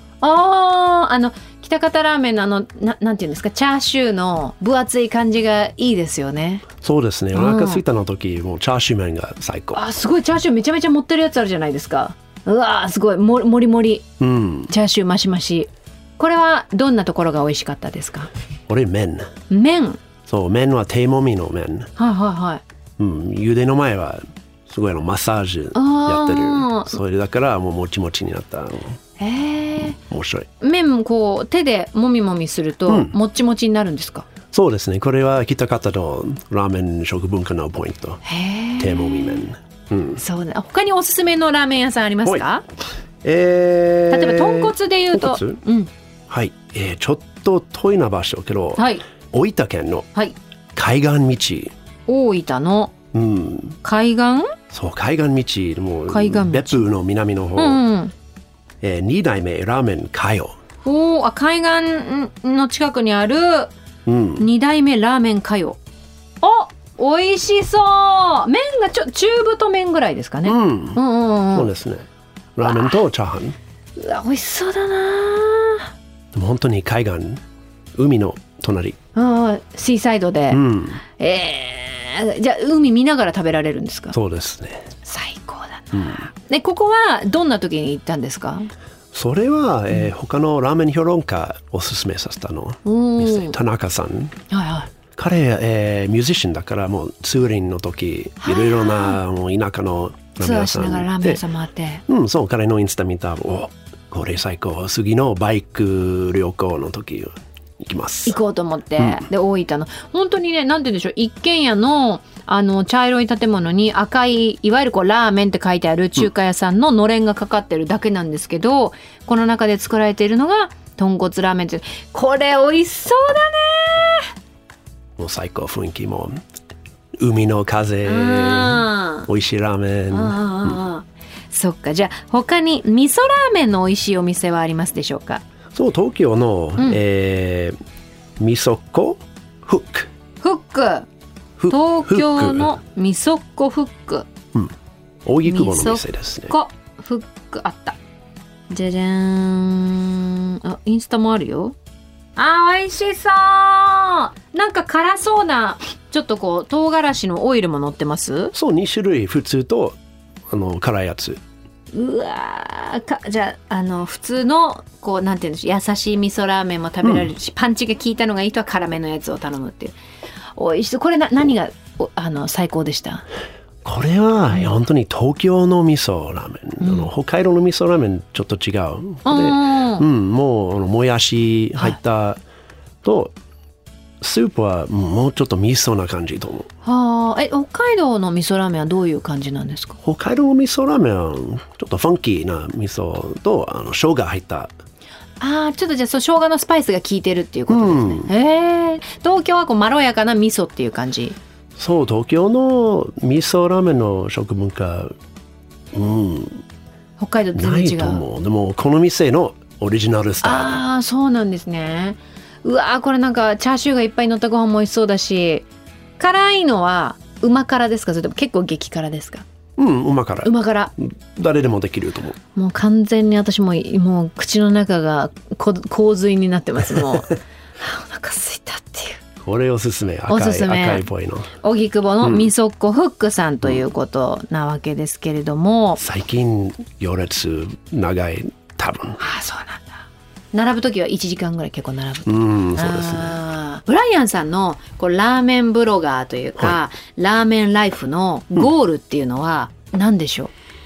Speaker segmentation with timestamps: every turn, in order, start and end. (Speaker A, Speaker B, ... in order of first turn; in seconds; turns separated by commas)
Speaker A: 0.2-6.7, Speaker B: 6.8-9.8, Speaker A: 7.3-7.8, Speaker A: 9.7-14.1, Speaker B: 14.2-14.7, Speaker A: 14.7-18.3, Speaker B: 18.7-19.3, Speaker A: 19.5-20.0, Speaker B: 20.3-21.9, Speaker A: 22.0-22.6, Speaker B: 23.0-29.0, Speaker A: 25.7-27.0, Speaker A: 29.2-30.0, Speaker B: 29.9-30.5, Speaker A: 30.6-34.3, Speaker B: 32.9-33.1, Speaker B: 34.5-38.2, Speaker A: 38.2-39.4, Speaker B: 38.8-40.2, Speaker A: 40.2-42.6, Speaker B: 43.2-45.6, Speaker A: 44.1-45.9, Speaker B: 46.3-50.1, Speaker A: 48.8-49.0, Speaker B: 50.8-51.7, Speaker A: 52.1-52.9, Speaker B: 53.1-53.8, Speaker A: 53.8-54.5, Speaker B: 54.7-57.8, Speaker A: 56.1-56.9, Speaker A: 57.6-58.1, Speaker B: 58.8-60.5, Speaker A: 60.9-63.7, Speaker B: 64.1-64.5, Speaker A: 64.4-65.8, Speaker A: 66.4-71.7, Speaker B: 70.4-73.6, Speaker A: 72.7-72.9, Speaker A: 74.0-75.9, Speaker B: 76.3-77.4, Speaker B: 78.0-79.0, Speaker A: 79.2-80.6, Speaker B: 80.5-81.0, Speaker A: 81.2-84.2, Speaker B: 84.1-84.9, Speaker A: 85.0-88.7, Speaker B: 85.9-86.3, Speaker B: 89.1-94.4, Speaker A: 92.8-93.6, Speaker A: 94.5-94.9, Speaker B: 95.2-101.4, Speaker A: 98.4-99.2, Speaker A: 100.4-102.0, Speaker B: 102.1-108.4, Speaker A: 108.3-124.3, Speaker B: 109.0-109.3, Speaker B: 125.2-126.4, Speaker B: 127.2-130.8, Speaker A: 128.1-129.3, Speaker A: 130.1-135.4, Speaker B: 135.7-137.8, Speaker B: 138.4-140.1, Speaker A: 140.4-141.1, Speaker B: 141.6-142.8, Speaker A: 141.7-144.3, Speaker B: 145.3-146.6, Speaker A: 145.4-148.0, Speaker A: 148.7-151.8, Speaker A: 152.4-158.5, Speaker B: 158.5-160.0, Speaker B: 160.5-161.4, Speaker A: 161.9-170.0, Speaker B: 167.0-167.3, Speaker A: 170.6-173.2, Speaker B: 173.8-182.4, Speaker A: 176.8-177.1, Speaker A: 179.3-180.1, Speaker B: 183.0-183.3, Speaker B: 184.2-186.7, Speaker A: 186.8-190.0, Speaker B: 190.0-194.7, Speaker A: 195.4-201.4, Speaker B: 197.7-198.3, Speaker B: 201.8-205.2, Speaker B: 205.9-206.6, Speaker A: 207.2-208.2, Speaker B: 207.6-210.8, Speaker A: 210.4-215.7, Speaker A: 216.2-219.4, Speaker B: 219.8-222.4, Speaker A: 220.4-220.9, Speaker A: 222.6-229.2, Speaker B: 229.4-231.5, Speaker A: 230.3-231.1, Speaker A: 231.6-236.0, Speaker B: 232.2-232.5, Speaker B: 236.0-239.2, Speaker A: 239.2-250.5, Speaker B: 242.3-243.4